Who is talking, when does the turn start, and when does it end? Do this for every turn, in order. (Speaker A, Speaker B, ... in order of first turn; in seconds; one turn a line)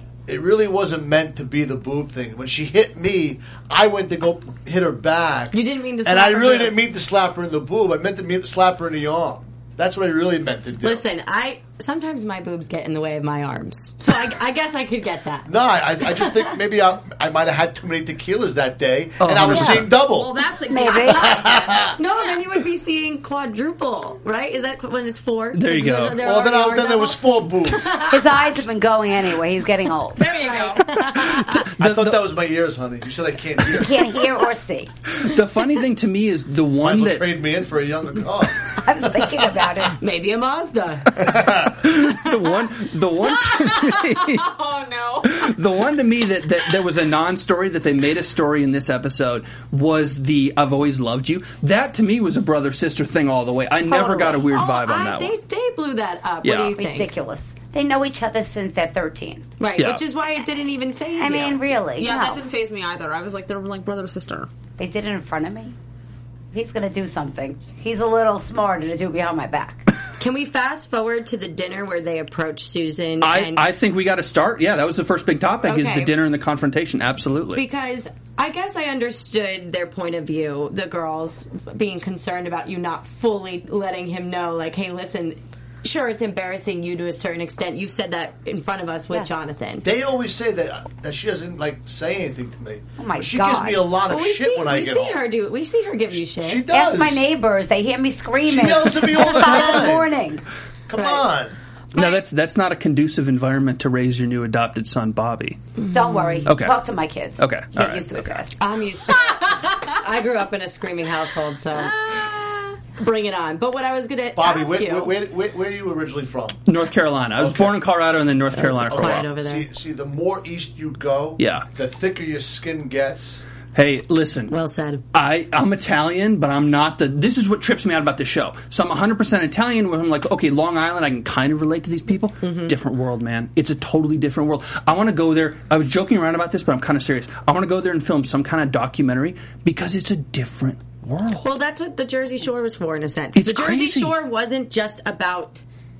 Speaker A: 0.3-11.1
Speaker B: 5.5-6.8
Speaker B: 10.8-15.5
Speaker A: 15.5-20.3
Speaker C: 19.2-19.9
Speaker B: 19.4-19.8
Speaker D: 20.0-22.4
Speaker E: 20.7-21.4
Speaker A: 21.0-22.0
Speaker B: 22.0-28.5
Speaker C: 25.5-26.2
Speaker A: 26.1-28.0
Speaker E: 28.1-30.3
Speaker D: 30.2-31.0
Speaker B: 30.4-31.7
Speaker C: 31.1-32.2
Speaker A: 31.8-34.3
Speaker E: 33.7-34.9
Speaker C: 35.1-37.2
Speaker A: 36.8-39.6
Speaker E: 38.8-40.0
Speaker B: 40.0-41.4
Speaker A: 41.2-41.8
Speaker C: 41.8-44.5
Speaker D: 43.2-45.5
Speaker C: 45.2-55.3
Speaker E: 53.9-54.4
Speaker B: 54.4-57.1
Speaker C: 56.4-56.8
Speaker E: 56.7-59.4
Speaker B: 59.6-61.7
Speaker C: 59.8-60.0
Speaker E: 61.2-62.4
Speaker D: 62.0-64.5
Speaker E: 64.8-65.7
Speaker E: 66.5-69.8
Speaker B: 70.2-73.7
Speaker C: 73.2-77.6
Speaker B: 75.6-76.1
Speaker B: 77.5-89.9
Speaker A: 89.8-95.2
Speaker E: 93.0-93.9
Speaker B: 94.0-96.6
Speaker A: 96.1-97.2
Speaker E: 96.7-100.4
Speaker A: 98.5-100.1
Speaker A: 100.9-101.5
Speaker B: 101.0-101.2
Speaker C: 101.9-105.6
Speaker E: 105.9-108.5
Speaker B: 106.0-106.5
Speaker C: 106.5-106.8
Speaker C: 107.4-108.2
Speaker B: 108.6-112.2
Speaker B: 112.9-115.1
Speaker A: 114.3-116.6
Speaker C: 116.7-119.3
Speaker A: 117.4-117.8
Speaker B: 118.5-119.7
Speaker A: 118.9-123.4
Speaker C: 121.4-121.7
Speaker C: 123.7-124.5
Speaker B: 124.5-125.0
Speaker C: 125.1-141.5
Speaker B: 132.4-132.8
Speaker B: 141.4-145.6
Speaker C: 143.3-144.2